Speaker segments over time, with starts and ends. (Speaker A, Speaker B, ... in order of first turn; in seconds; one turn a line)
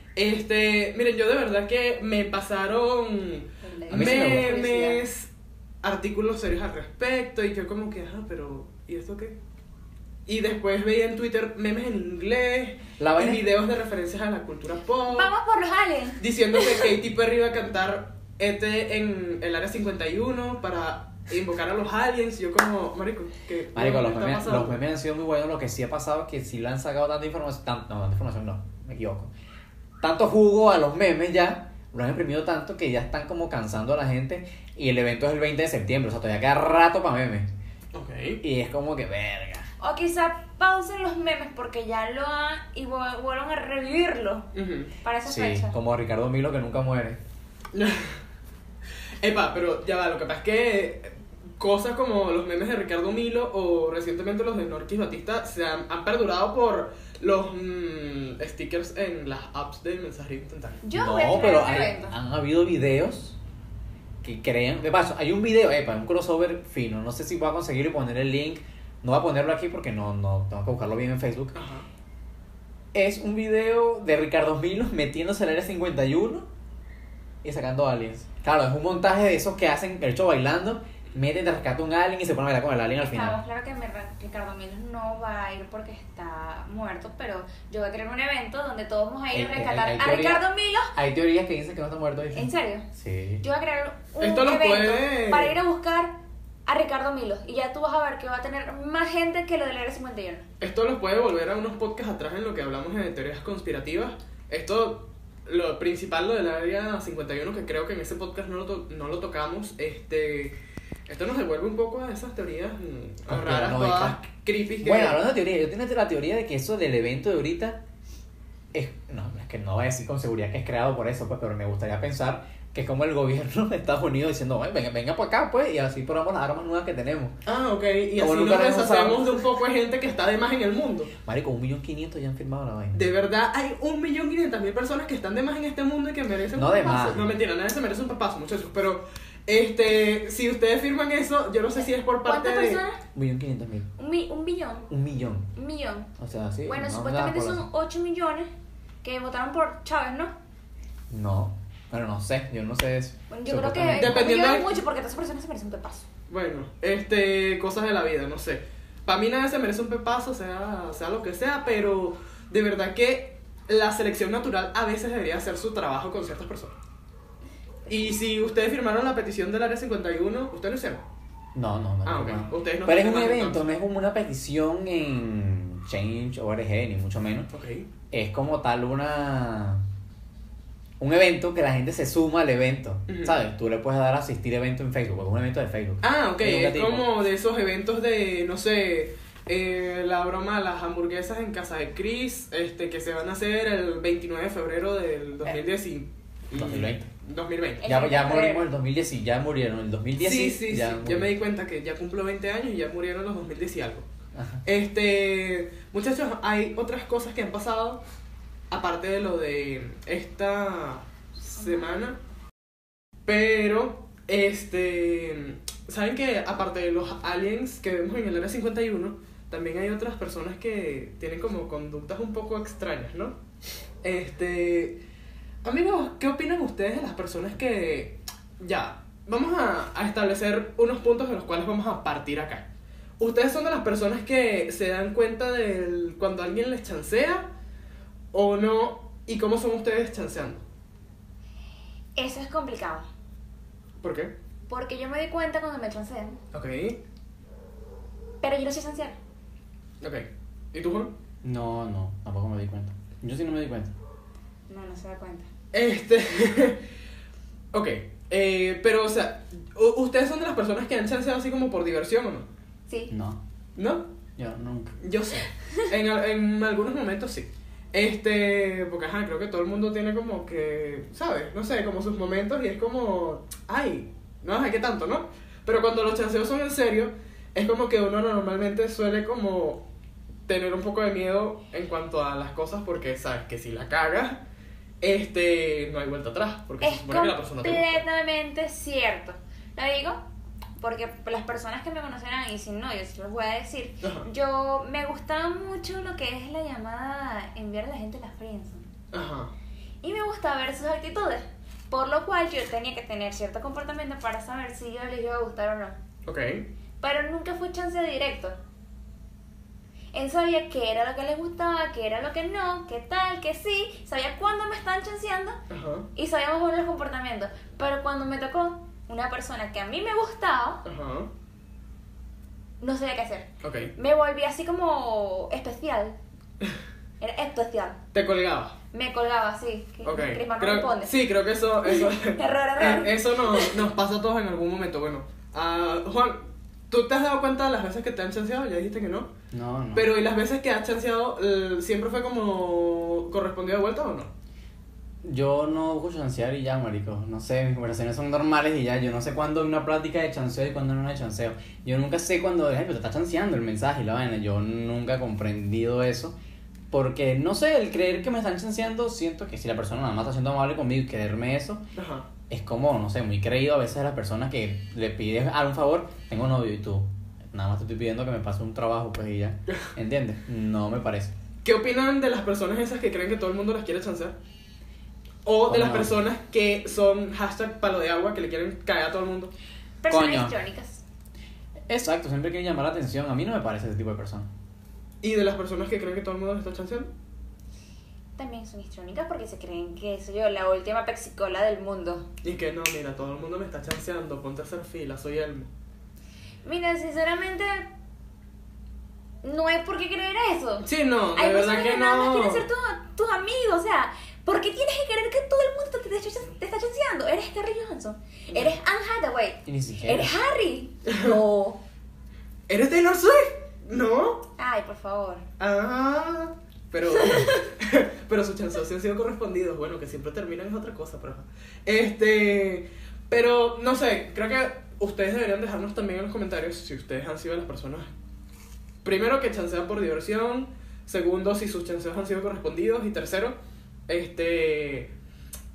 Speaker A: 0.1-5.3
Speaker B: 3.6-5.0
Speaker C: 3.9-4.6
Speaker A: 5.8-9.4
Speaker A: 10.3-15.3
Speaker C: 13.0-13.4
Speaker B: 15.1-16.8
Speaker A: 16.2-24.8
Speaker C: 23.8-29.3
Speaker C: 30.0-37.5
Speaker A: 37.9-38.4
Speaker C: 38.4-39.7
Speaker B: 39.8-44.5
Speaker A: 44.5-44.9
Speaker B: 45.0-45.8
Speaker C: 45.3-47.2
Speaker A: 47.7-48.1
Speaker A: 49.2-60.8
Speaker B: 60.8-62.1
Speaker C: 60.9-63.4
Speaker C: 64.2-71.6
Speaker A: 71.5-71.9
Speaker C: 72.9-76.5
Speaker C: 77.4-83.4
Speaker B: 83.0-91.0
Speaker C: 89.3-90.4
Speaker C: 91.0-93.4
Speaker B: 92.3-92.9
Speaker B: 93.4-100.5
Speaker A: 94.2-95.6
Speaker A: 100.6-110.6
Speaker A: 111.1-115.2
Speaker C: 113.3-114.2
Speaker C: 114.8-117.8
Speaker C: 118.7-127.4
Speaker A: 127.5-131.1
Speaker C: 128.2-129.3
Speaker C: 131.2-133.0
Speaker A: 132.9-142.8
Speaker C: 136.6-137.3
Speaker B: 142.2-143.0
Speaker C: 143.2-143.9
Speaker B: 144.0-144.9
Speaker C: 144.9-145.5
Speaker B: 145.5-146.1
Speaker C: 146.2-147.7
Speaker B: 146.6-148.5
Speaker B: 149.0-150.3
Speaker C: 151.1-154.3
Speaker B: 153.3-156.1
Speaker A: 154.0-154.8
Speaker A: 156.3-166.8
Speaker A: 167.9-171.0
Speaker C: 171.6-177.5
Speaker A: 172.1-173.7
Speaker A: 177.5-177.9
Speaker C: 178.1-179.8
Speaker C: 181.0-187.1
Speaker A: 183.1-183.4
Speaker A: 186.0-197.9
Speaker C: 196.5-197.1
Speaker B: 197.8-198.7
Speaker C: 197.8-201.3
Speaker A: 200.2-204.1
Speaker C: 204.3-204.6
Speaker A: 204.7-208.0
Speaker A: 208.7-212.2
Speaker B: 211.6-212.0
Speaker A: 213.3-223.4
Speaker A: 224.0-225.0
Speaker A: 225.6-232.7
Speaker A: 233.2-237.5
Speaker A: 238.3-240.6
Speaker B: 242.2-243.1
Speaker A: 244.0-244.3
Speaker B: 244.7-246.4
Speaker A: 246.5-247.0
Speaker B: 248.4-249.2
Speaker A: 250.0-251.1
Speaker C: 251.4-253.9
Speaker B: 254.7-255.5
Speaker A: 255.7-256.8
Speaker A: 257.7-262.5
Speaker C: 263.1-263.4
Speaker A: 263.8-264.1
Speaker C: 264.4-265.0
Speaker A: 265.0-279.8
Speaker A: 280.5-284.4
Speaker A: 285.0-288.0
Speaker B: 286.8-290.2
Speaker B: 290.8-298.9
Speaker A: 294.0-294.3
Speaker A: 299.1-299.5
Speaker B: 300.0-306.0
Speaker A: 306.3-306.7
Speaker B: 307.0-308.6
Speaker B: 310.1-315.6
Speaker A: 315.7-316.1
Speaker B: 316.1-320.8
Speaker A: 320.9-321.3
Speaker B: 322.8-326.2
Speaker A: 323.6-323.9
Speaker B: 327.2-328.0
Speaker A: 328.1-328.8
Speaker B: 328.9-331.1
Speaker A: 330.1-339.3
Speaker B: 331.9-333.8
Speaker C: 339.5-340.1
Speaker A: 339.9-344.3
Speaker C: 345.2-356.4
Speaker C: 356.9-361.8
Speaker A: 361.9-362.3
Speaker C: 362.5-371.3
Speaker A: 371.6-374.4
Speaker A: 375.4-379.5
Speaker C: 375.7-376.2
Speaker B: 380.0-381.0
Speaker C: 380.1-380.6
Speaker C: 381.9-384.5
Speaker A: 385.2-387.1
Speaker B: 388.4-392.3
Speaker A: 392.4-395.7
Speaker B: 396.6-397.9
Speaker B: 399.4-411.8
Speaker A: 400.8-402.7
Speaker C: 409.7-410.3
Speaker A: 411.1-411.4
Speaker A: 412.7-414.5
Speaker B: 414.6-415.4
Speaker A: 415.6-428.1
Speaker B: 417.2-417.7
Speaker A: 429.0-433.6
Speaker A: 434.1-435.1